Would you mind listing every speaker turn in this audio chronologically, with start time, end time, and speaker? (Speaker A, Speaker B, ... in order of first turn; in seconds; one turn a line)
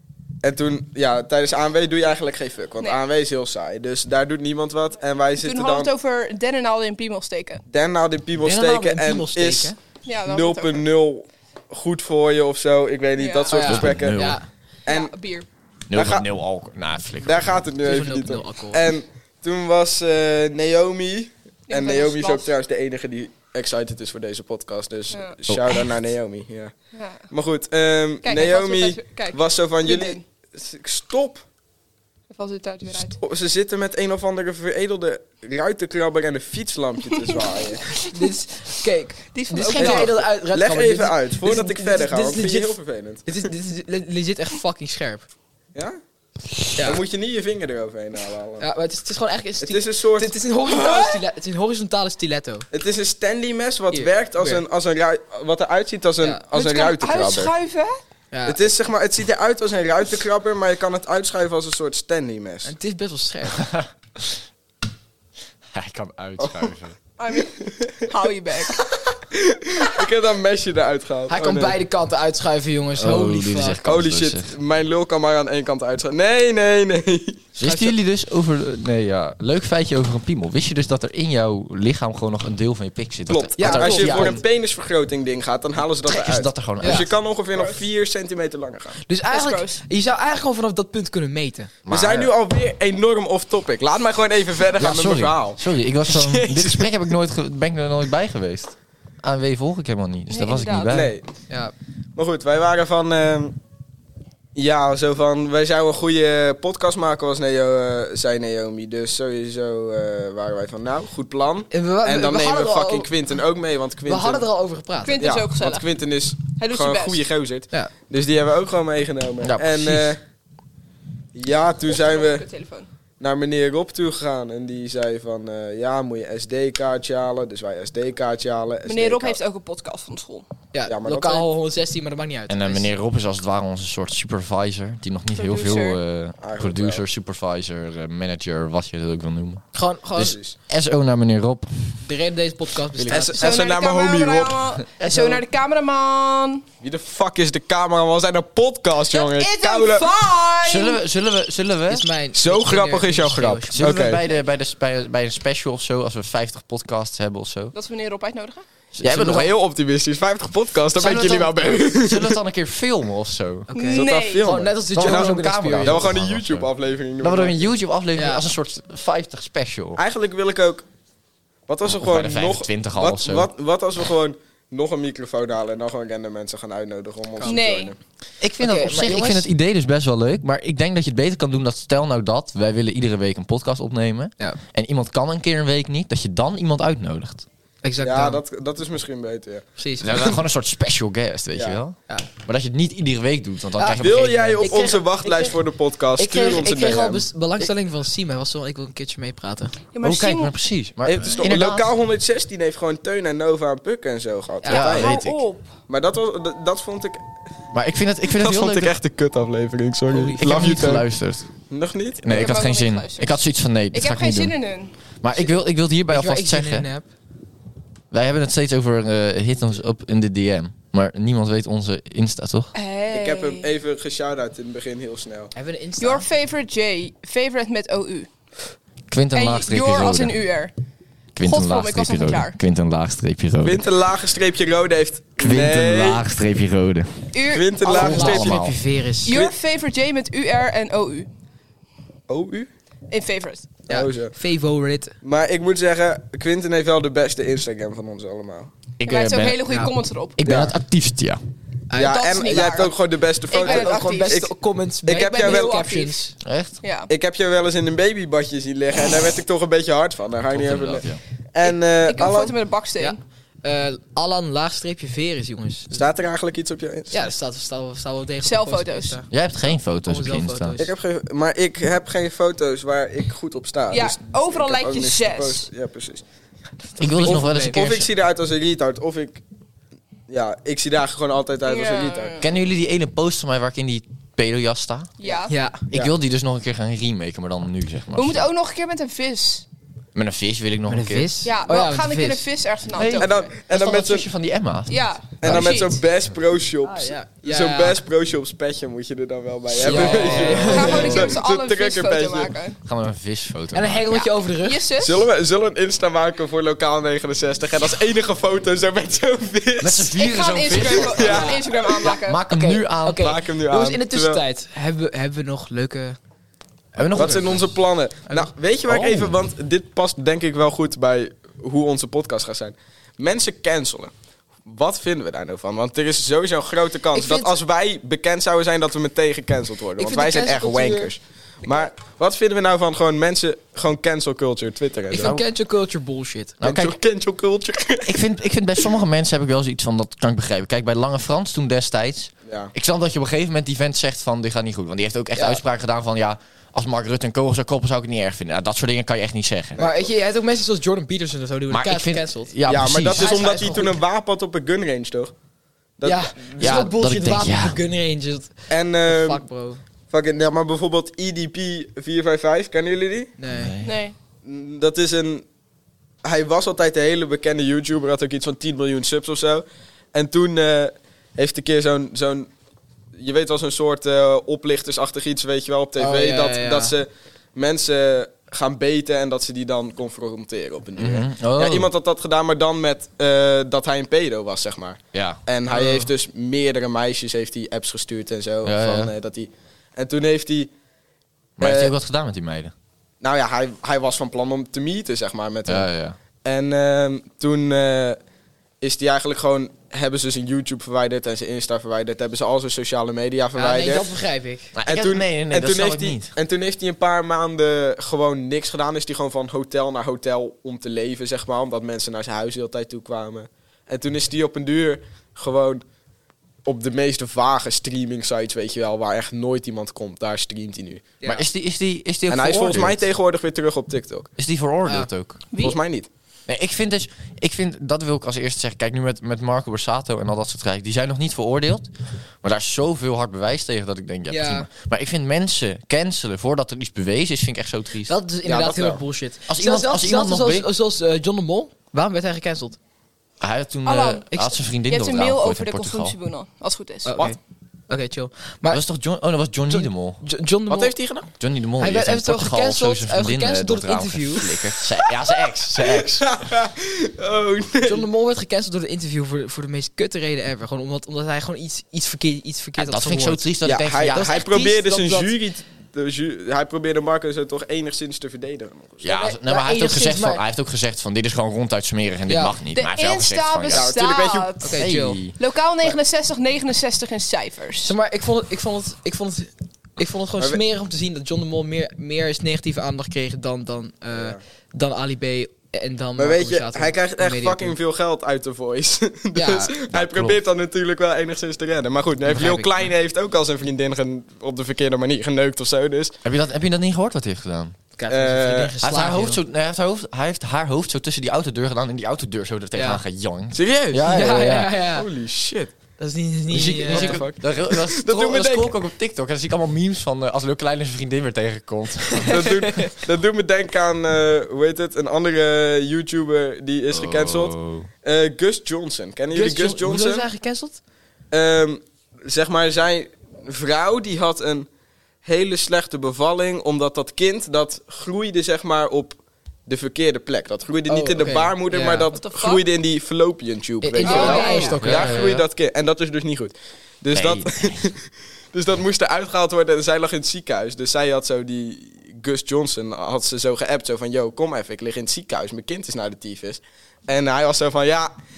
Speaker A: 0.4-5.9
Speaker B: 5.4-7.6
Speaker A: 7.7-9.7
Speaker C: 8.4-9.8
Speaker B: 10.1-10.8
Speaker A: 10.3-14.3
Speaker B: 13.2-13.6
Speaker C: 13.5-14.5
Speaker D: 13.6-14.4
Speaker A: 14.9-15.1
Speaker B: 14.9-15.5
Speaker D: 15.9-17.7
Speaker A: 15.9-16.3
Speaker A: 17.2-26.8
Speaker C: 17.8-18.9
Speaker B: 21.7-22.5
Speaker D: 25.5-25.9
Speaker B: 26.9-27.3
Speaker A: 27.3-31.4
Speaker B: 28.2-30.2
Speaker B: 32.3-33.2
Speaker A: 33.1-37.9
Speaker B: 37.9-38.3
Speaker C: 38.1-45.2
Speaker B: 39.3-40.1
Speaker A: 39.7-43.3
Speaker C: 46.8-47.0
Speaker A: 46.8-48.7
Speaker C: 48.6-52.7
Speaker A: 49.6-50.4
Speaker B: 50.7-51.1
Speaker A: 52.7-57.5
Speaker C: 53.9-54.6
Speaker B: 56.5-58.0
Speaker C: 58.3-58.6
Speaker A: 58.5-62.7
Speaker C: 62.6-63.7
Speaker D: 63.6-64.4
Speaker D: 65.7-67.0
Speaker A: 66.4-66.7
Speaker B: 67.2-68.8
Speaker A: 67.6-67.9
Speaker A: 69.3-71.8
Speaker C: 71.3-73.8
Speaker D: 73.0-74.5
Speaker A: 73.8-77.4
Speaker D: 77.6-84.4
Speaker C: 77.6-77.9
Speaker A: 83.3-89.0
Speaker C: 83.6-84.4
Speaker D: 86.0-87.1
Speaker C: 86.8-87.1
Speaker B: 87.6-87.8
Speaker C: 89.1-91.7
Speaker B: 89.3-89.8
Speaker D: 91.9-92.3
Speaker A: 91.9-96.9
Speaker D: 94.8-101.1
Speaker B: 100.3-101.0
Speaker A: 100.9-101.3
Speaker A: 102.2-103.6
Speaker A: 104.5-114.5
Speaker C: 111.7-113.1
Speaker C: 114.1-115.2
Speaker B: 115.0-115.9
Speaker A: 115.2-120.2
Speaker B: 116.5-117.2
Speaker D: 119.4-120.1
Speaker A: 121.3-122.5
Speaker B: 121.9-122.9
Speaker A: 123.2-129.4
Speaker B: 128.9-130.5
Speaker C: 130.7-132.9
Speaker A: 130.9-131.5
Speaker D: 132.5-139.6
Speaker B: 135.3-136.0
Speaker A: 136.4-137.0
Speaker C: 139.7-140.4
Speaker D: 140.2-142.0
Speaker A: 140.2-140.6
Speaker C: 142.0-143.4
Speaker A: 143.1-144.6
Speaker B: 143.3-146.6
Speaker C: 145.1-145.4
Speaker A: 146.8-150.1
Speaker B: 149.1-151.0
Speaker D: 150.6-152.1
Speaker C: 151.9-154.2
Speaker A: 152.3-154.2
Speaker D: 153.7-157.7
Speaker B: 157.7-158.7
Speaker D: 158.9-159.6
Speaker A: 159.0-162.4
Speaker D: 160.9-163.7
Speaker C: 163.7-166.1
Speaker B: 163.7-164.5
Speaker A: 163.9-167.7
Speaker D: 164.9-170.0
Speaker C: 168.2-168.4
Speaker A: 170.0-170.8
Speaker A: 171.7-178.0
Speaker D: 171.9-173.5
Speaker B: 177.4-177.9
Speaker D: 178.4-187.5
Speaker C: 178.6-179.5
Speaker C: 187.8-188.4
Speaker A: 188.0-189.7
Speaker C: 189.8-190.4
Speaker D: 190.0-194.8
Speaker A: 191.5-191.8
Speaker C: 193.8-195.6
Speaker A: 193.9-197.3
Speaker C: 196.2-199.8
Speaker B: 199.9-200.5
Speaker D: 200.0-201.9
Speaker A: 201.0-205.2
Speaker B: 204.7-205.7
Speaker D: 204.7-205.4
Speaker A: 205.9-207.3
Speaker D: 207.7-209.0
Speaker A: 208.3-211.1
Speaker C: 210.1-210.9
Speaker D: 210.4-211.5
Speaker A: 211.7-212.5
Speaker D: 212.2-214.6
Speaker B: 212.3-213.4
Speaker B: 213.9-214.9
Speaker D: 215.2-216.9
Speaker C: 216.1-217.1
Speaker D: 218.1-222.7
Speaker B: 222.7-223.7
Speaker A: 223.1-225.5
Speaker C: 225.6-226.3
Speaker B: 226.0-228.3
Speaker D: 229.1-230.4
Speaker B: 229.3-230.7
Speaker D: 231.3-233.8
Speaker B: 231.4-232.6
Speaker A: 233.6-236.2
Speaker D: 235.4-237.3
Speaker B: 237.3-238.2
Speaker A: 237.5-238.6
Speaker C: 237.8-239.4
Speaker D: 237.9-238.8
Speaker B: 239.2-241.3
Speaker A: 239.3-239.5
Speaker A: 242.3-242.7
Speaker B: 243.1-243.7
Speaker A: 243.9-244.3
Speaker C: 243.9-245.2
Speaker A: 245.2-248.7
Speaker D: 249.0-251.4
Speaker B: 249.1-250.4
Speaker A: 250.4-250.7
Speaker C: 251.9-252.8
Speaker A: 251.9-254.5
Speaker B: 252.0-252.9
Speaker B: 253.5-254.5
Speaker C: 253.6-256.4
Speaker A: 255.1-255.9
Speaker B: 255.1-256.2
Speaker D: 256.4-256.8
Speaker B: 256.8-257.1
Speaker A: 257.1-262.6
Speaker D: 260.5-261.2
Speaker B: 261.6-263.2
Speaker C: 263.0-266.0
Speaker A: 265.9-267.2
Speaker C: 267.1-269.3
Speaker B: 268.4-269.2
Speaker D: 269.3-270.8
Speaker C: 270.0-270.9
Speaker A: 270.8-276.2
Speaker B: 273.9-275.7
Speaker C: 277.0-277.9
Speaker D: 277.0-278.1
Speaker A: 277.2-279.4
Speaker A: 280.3-282.4
Speaker B: 281.7-282.4
Speaker D: 282.4-285.1
Speaker B: 285.2-285.5
Speaker C: 285.5-285.9
Speaker D: 285.9-288.5
Speaker B: 288.1-289.7
Speaker D: 290.1-291.4
Speaker C: 290.9-292.5
Speaker B: 291.4-293.5
Speaker D: 292.9-295.7
Speaker A: 293.2-294.3
Speaker B: 294.9-296.0
Speaker A: 295.4-302.6
Speaker C: 296.8-298.0
Speaker C: 299.8-301.4
Speaker D: 299.9-300.6
Speaker B: 299.9-302.8
Speaker D: 302.9-304.1
Speaker C: 303.7-304.9
Speaker B: 304.1-305.2
Speaker A: 305.0-310.1
Speaker D: 309.8-313.3
Speaker B: 310.1-312.4
Speaker A: 310.8-312.0
Speaker C: 311.2-311.7
Speaker C: 312.5-316.2
Speaker A: 313.2-314.4
Speaker D: 316.9-317.7
Speaker C: 317.0-317.4
Speaker A: 317.1-324.1
Speaker D: 318.9-319.3
Speaker A: 324.6-335.4
Speaker C: 327.1-327.6
Speaker C: 330.0-331.1
Speaker C: 335.1-336.6
Speaker D: 335.2-335.4
Speaker D: 336.6-337.0
Speaker A: 336.6-338.2
Speaker D: 338.1-349.9
Speaker A: 342.5-342.7
Speaker C: 345.4-345.6
Speaker A: 349.8-350.1
Speaker C: 349.8-352.5
Speaker D: 351.7-353.4
Speaker A: 352.7-355.3
Speaker C: 353.1-354.0
Speaker A: 356.0-356.8
Speaker C: 356.0-359.8
Speaker D: 356.6-357.8
Speaker A: 358.7-359.4
Speaker A: 360.1-363.3
Speaker C: 363.4-363.8
Speaker D: 363.5-364.0
Speaker B: 363.8-364.1
Speaker A: 364.4-365.4
Speaker A: 366.2-372.5
Speaker A: 373.1-390.7
Speaker C: 376.0-376.9
Speaker D: 381.0-381.9
Speaker D: 385.1-385.4
Speaker C: 385.7-386.1
Speaker D: 388.6-389.1
Speaker D: 391.6-392.7
Speaker A: 391.6-391.9
Speaker A: 393.2-395.9
Speaker D: 395.7-396.2
Speaker A: 396.4-398.2
Speaker A: 398.8-404.1
Speaker C: 403.6-404.7
Speaker D: 404.8-406.3
Speaker A: 404.9-415.8
Speaker A: 416.6-421.1
Speaker C: 421.2-421.5
Speaker D: 421.2-423.1
Speaker A: 422.3-424.3
Speaker D: 424.4-425.4
Speaker B: 425.5-425.8
Speaker A: 425.6-426.1
Speaker D: 426.5-431.9
Speaker D: 432.4-438.1
Speaker C: 434.3-434.7
Speaker C: 438.1-442.8
Speaker A: 438.4-439.0
Speaker D: 439.5-440.7
Speaker D: 443.4-446.2
Speaker B: 443.9-447.1
Speaker C: 447.1-447.4
Speaker C: 447.9-448.8
Speaker D: 448.7-450.2
Speaker C: 449.7-451.0
Speaker A: 450.7-451.3
Speaker D: 451.4-456.3
Speaker C: 451.8-454.6
Speaker A: 455.7-458.1
Speaker C: 457.8-463.5
Speaker D: 462.8-464.5
Speaker A: 463.6-469.0
Speaker C: 464.1-465.3
Speaker D: 469.0-473.9
Speaker C: 469.1-470.4
Speaker C: 472.3-472.6
Speaker B: 472.7-477.9
Speaker A: 473.7-474.5
Speaker C: 474.6-475.2
Speaker D: 474.8-475.4
Speaker C: 477.8-487.8
Speaker A: 484.1-484.4
Speaker A: 486.2-496.2
Speaker C: 489.4-489.7
Speaker D: 489.9-490.4
Speaker C: 492.3-492.8
Speaker D: 496.2-497.8
Speaker C: 498.0-499.4
Speaker A: 498.1-498.8
Speaker D: 498.8-504.8
Speaker C: 502.8-503.0
Speaker A: 503.5-505.7
Speaker C: 504.0-505.1
Speaker C: 506.0-507.3
Speaker D: 506.5-512.5
Speaker A: 506.8-508.7
Speaker A: 512.2-520.3
Speaker C: 512.2-512.9
Speaker D: 516.9-517.9
Speaker C: 519.3-520.8
Speaker A: 521.3-524.7
Speaker A: 525.2-538.0
Speaker C: 530.9-532.1
Speaker B: 532.1-532.6
Speaker C: 533.8-535.3
Speaker B: 534.0-534.8
Speaker D: 534.5-535.5
Speaker D: 537.1-537.9
Speaker A: 538.5-548.1